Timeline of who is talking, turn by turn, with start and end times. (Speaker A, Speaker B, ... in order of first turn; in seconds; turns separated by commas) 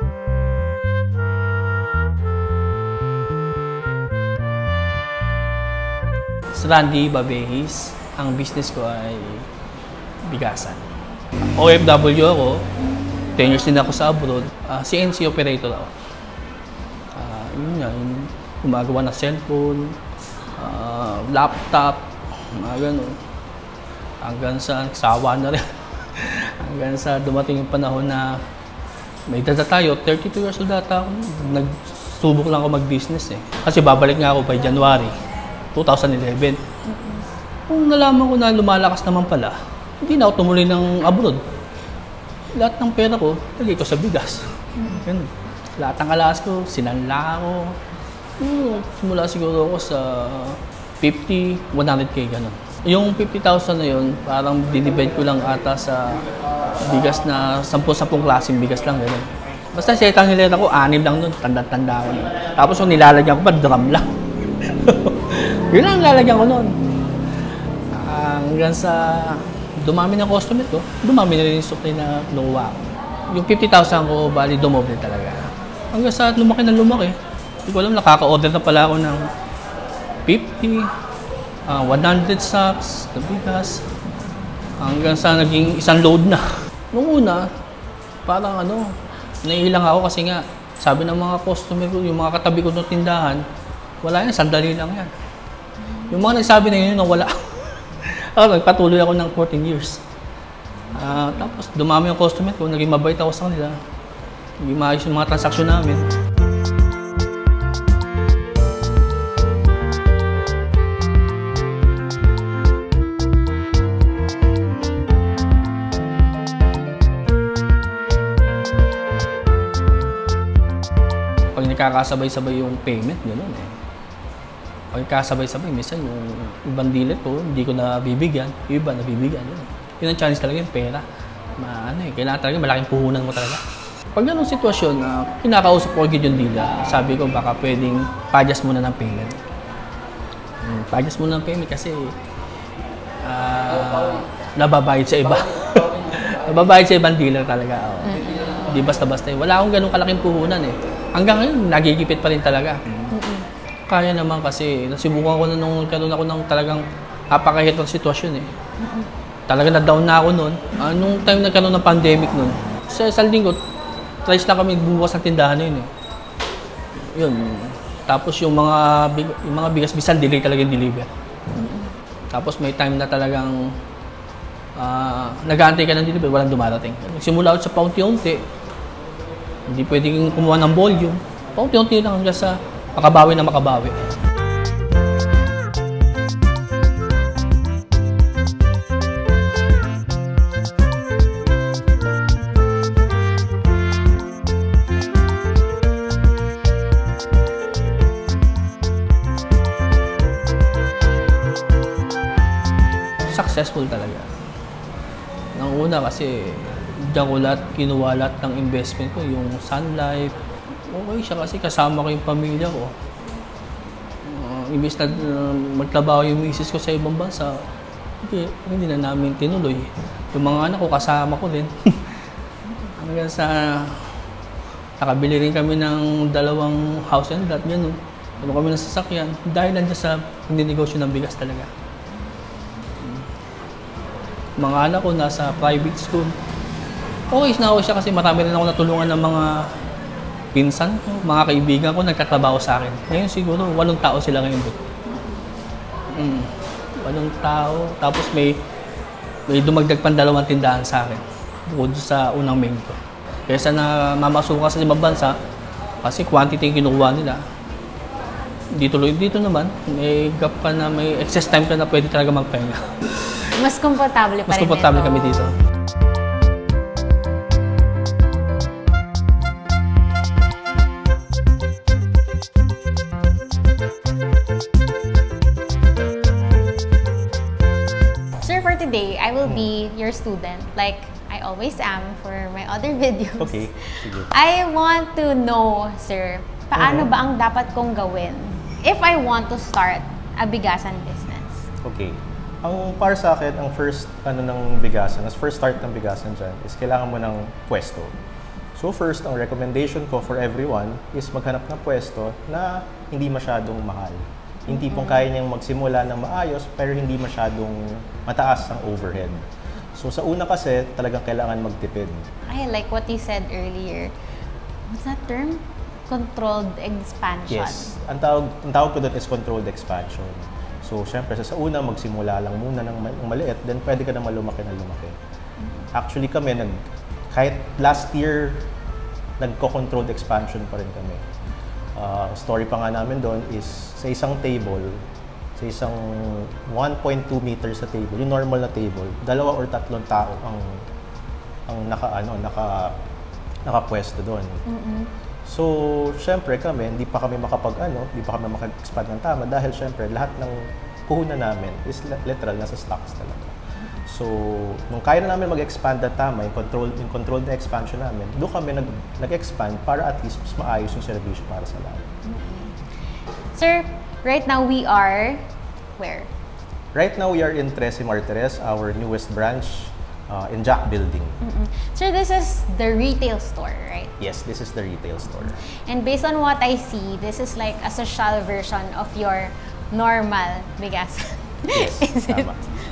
Speaker A: 6.5-9.5, Speaker A: 10.2-10.8, Speaker A: 11.6-12.7, Speaker A: 13.3-15.9, Speaker A: 17.1-20.0, Speaker A: 20.6-23.2, Speaker A: 24.2-28.4, Speaker A: 29.3-35.1, Speaker A: 35.7-36.6, Speaker B: 36.9-37.2, Speaker A: 37.7-41.4, Speaker A: 42.5-47.8, Speaker B: 44.8-45.0, Speaker A: 48.4-56.2, Speaker A: 56.8-66.8, Speaker A: 67.9-79.2, Speaker A: 80.2-80.9, Speaker A: 81.7-83.8, Speaker A: 84.8-87.5, Speaker A: 88.2-93.4, Speaker A: 94.0-95.1, Speaker A: 96.1-100.0, Speaker A: 100.9-103.8, Speaker A: 104.6-106.0, Speaker A: 121.5-123.8, Speaker A: 124.9-131.0, Speaker A: 131.6-133.6, Speaker A: 134.1-139.4, Speaker A: 140.6-142.1, Speaker A: 143.2-153.1, Speaker B: 148.0-148.3, Speaker B: 153.1-153.5, Speaker A: 153.9-158.5, Speaker B: 158.8-159.1, Speaker A: 159.5-163.6, Speaker A: 164.2-165.9, Speaker A: 166.9-171.1, Speaker B: 171.6-171.9, Speaker A: 172.3-173.7, Speaker A: 174.8-178.5, Speaker A: 179.7-184.0, Speaker A: 203.3-204.3, Speaker A: 205.5-212.9, Speaker A: 214.2-217.6, Speaker A: 218.2-222.1, Speaker A: 222.9-224.1, Speaker A: 225.0-231.7, Speaker A: 233.0-233.2, Speaker A: 234.6-236.4, Speaker A: 237.3-239.7, Speaker A: 240.5-244.8, Speaker A: 246.1-248.6, Speaker A: 249.5-255.4, Speaker A: 256.0-257.4, Speaker A: 258.7-263.0, Speaker B: 263.5-265.4, Speaker A: 264.4-265.5, Speaker B: 278.4-291.7, Speaker C: 283.4-284.3, Speaker C: 286.8-287.1, Speaker C: 291.8-298.1, Speaker C: 298.8-309.4, Speaker B: 304.7-305.2, Speaker C: 309.9-312.3, Speaker B: 312.5-314.1, Speaker B: 314.9-317.9, Speaker C: 317.5-325.2, Speaker C: 325.9-326.8, Speaker C: 327.3-328.7, Speaker C: 329.4-331.2, Speaker C: 331.9-335.0, Speaker C: 335.6-340.8, Speaker C: 341.7-343.0, Speaker C: 343.6-344.6, Speaker B: 344.7-345.1, Speaker C: 345.4-353.5, Speaker C: 354.1-362.1, Speaker B: 362.2-362.8, Speaker B: 363.5-365.4, Speaker B: 366.0-366.3, Speaker C: 366.9-371.4, Speaker B: 371.4-374.1, Speaker C: 374.2-375.6, Speaker B: 375.9-382.6, Speaker C: 381.7-382.6